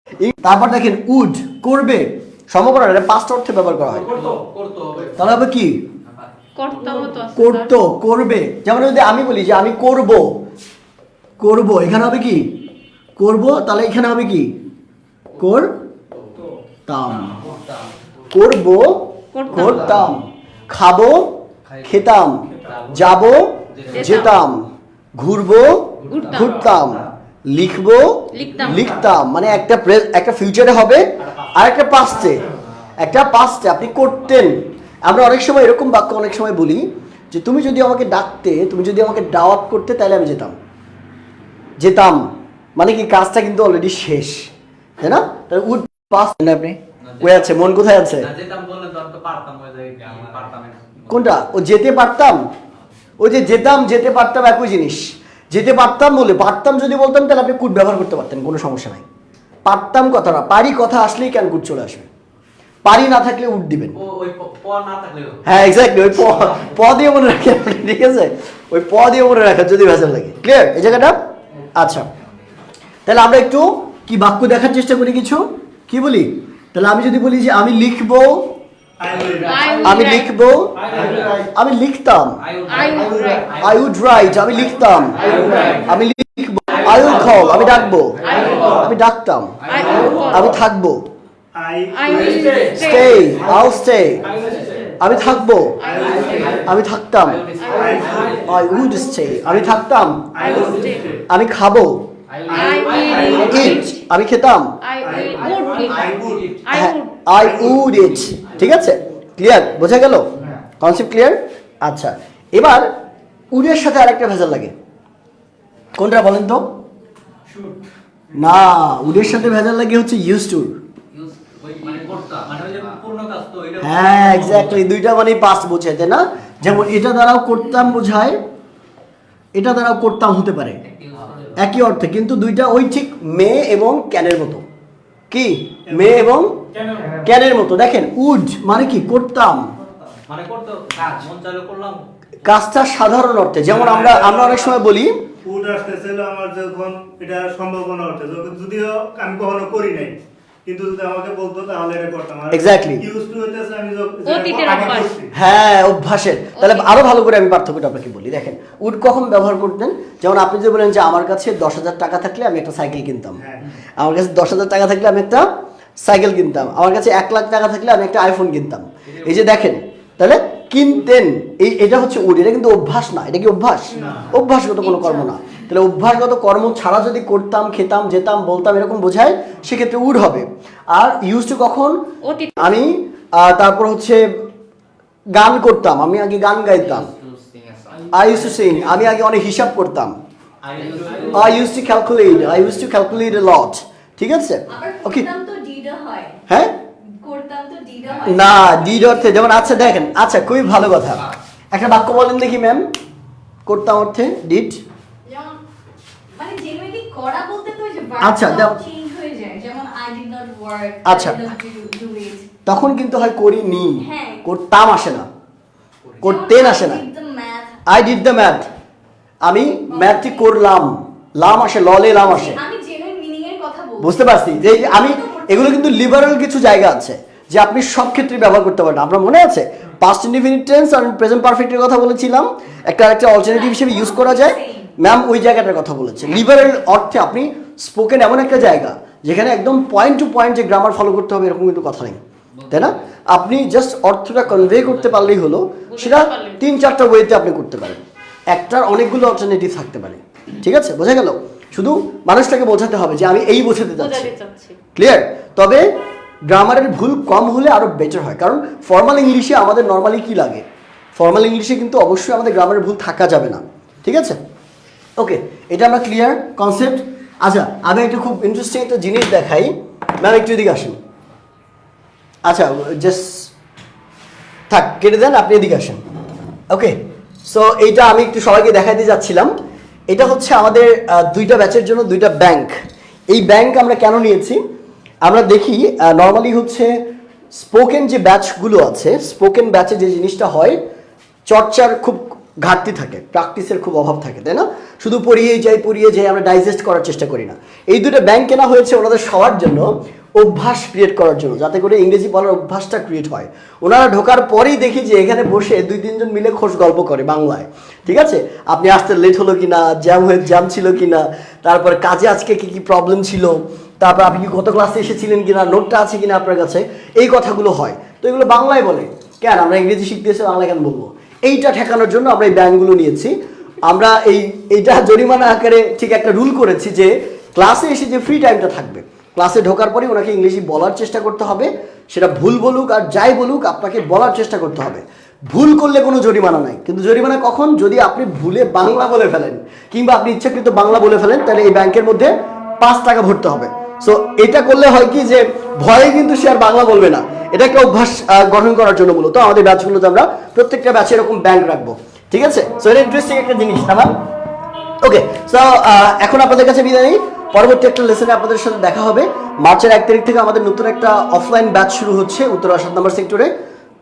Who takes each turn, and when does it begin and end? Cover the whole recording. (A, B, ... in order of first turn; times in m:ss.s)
0:00.2-0:04.1 A
0:04.1-0:05.3 B
0:05.2-0:05.8 A
0:06.1-0:06.9 B
0:06.6-0:07.7 C
0:07.4-0:10.3 A
0:11.4-0:12.5 A
0:13.2-0:14.5 A
0:15.4-0:15.7 A
0:16.9-0:17.5 A
0:17.3-0:17.9 B
0:18.3-0:21.3 A
0:19.3-0:19.9 C
0:21.8-0:24.6 A
0:22.6-0:22.9 B
0:23.9-0:24.4 C
0:25.2-0:32.5 A
0:26.1-0:26.5 C
0:28.3-0:28.9 C
0:31.2-0:31.5 B
0:33.0-0:40.6 A
0:41.8-0:44.5 A
0:45.0-0:48.3 A
0:47.1-0:47.5 B
0:48.1-0:51.1 B
0:51.1-0:52.4 A
0:53.2-0:59.0 A
0:59.6-1:02.1 A
1:02.8-1:04.0 A
1:04.0-1:05.5 B
1:05.4-1:11.2 A
1:11.7-1:12.1 A
1:13.1-1:18.5 A
1:19.0-1:19.6 D
1:19.1-1:19.4 B
1:19.4-1:20.3 C
1:19.8-1:22.4 A
1:20.8-1:21.4 B
1:22.5-1:23.8 B
1:22.7-1:23.5 C
1:23.6-1:29.6 A
1:25.1-1:25.7 B
1:28.2-1:28.9 C
1:29.6-1:30.3 B
1:29.7-1:30.6 C
1:30.3-1:31.0 A
1:31.5-1:32.7 D
1:31.9-1:33.4 C
1:32.7-1:34.3 A
1:34.4-1:34.7 B
1:35.0-1:35.8 A
1:35.8-1:36.3 C
1:35.8-1:36.7 D
1:36.5-1:37.5 A
1:37.5-1:38.3 B
1:37.5-1:37.9 C
1:37.8-1:38.6 D
1:38.4-1:40.4 A
1:39.4-1:39.7 D
1:40.3-1:41.2 D
1:40.4-1:41.1 C
1:41.3-1:42.1 A
1:42.4-1:43.1 B
1:42.5-1:43.5 D
1:42.5-1:44.0 C
1:43.4-1:44.8 A
1:44.8-1:47.2 C
1:45.0-1:46.6 D
1:45.4-1:46.5 B
1:46.7-1:50.3 A
1:47.4-1:48.0 D
1:50.8-1:52.9 A
1:53.5-1:54.7 A
1:56.0-1:56.6 A
1:58.3-2:00.8 A
2:01.2-2:04.8 B
2:03.8-2:08.4 A
2:09.6-2:10.8 A
2:10.9-2:11.5 B
2:11.6-2:14.6 A
2:15.3-2:19.7 A
2:15.9-2:16.2 D
2:20.3-2:22.0 B
2:22.4-2:25.2 A
2:23.6-2:24.8 D
2:25.4-2:35.3 D
2:32.5-2:33.0 A
2:34.3-2:35.1 C
2:35.3-2:43.4 A
2:36.6-2:36.9 C
2:44.0-2:45.4 A
2:46.0-3:04.2 A
2:53.9-2:54.2 C
2:54.8-2:55.3 C
3:02.2-3:02.7 C
3:05.3-3:07.1 A
3:07.1-3:08.0 B
3:08.1-3:10.2 A
3:10.6-3:11.5 B
3:11.3-3:15.3 A
3:14.7-3:16.4 E
3:17.1-3:19.4 E
3:18.2-3:22.9 A
3:23.7-3:24.8 A
3:25.3-3:25.6 E
3:26.3-3:32.5 E
3:28.2-3:28.8 A
3:31.0-3:31.5 A
3:32.6-3:35.3 A
3:34.0-3:34.4 E
3:36.2-3:37.0 A
3:36.2-3:37.8 E
3:37.9-3:38.7 A
3:39.4-3:42.6 A
3:39.9-3:40.4 E
3:42.2-3:45.9 E
3:44.0-4:14.3 A
3:53.5-3:54.9 E
4:05.9-4:06.6 C
4:14.0-4:14.8 C
4:14.9-4:15.8 A
4:16.5-4:24.4 A
4:25.2-4:31.0 A
4:32.4-4:33.5 A
4:34.7-4:36.0 A
4:36.7-4:37.0 A
4:37.5-4:39.5 A
4:40.1-4:42.7 A
4:43.3-4:44.6 A
4:45.2-4:46.9 A
4:47.5-4:50.8 A
4:51.5-5:54.1 A
5:55.0-6:03.5 A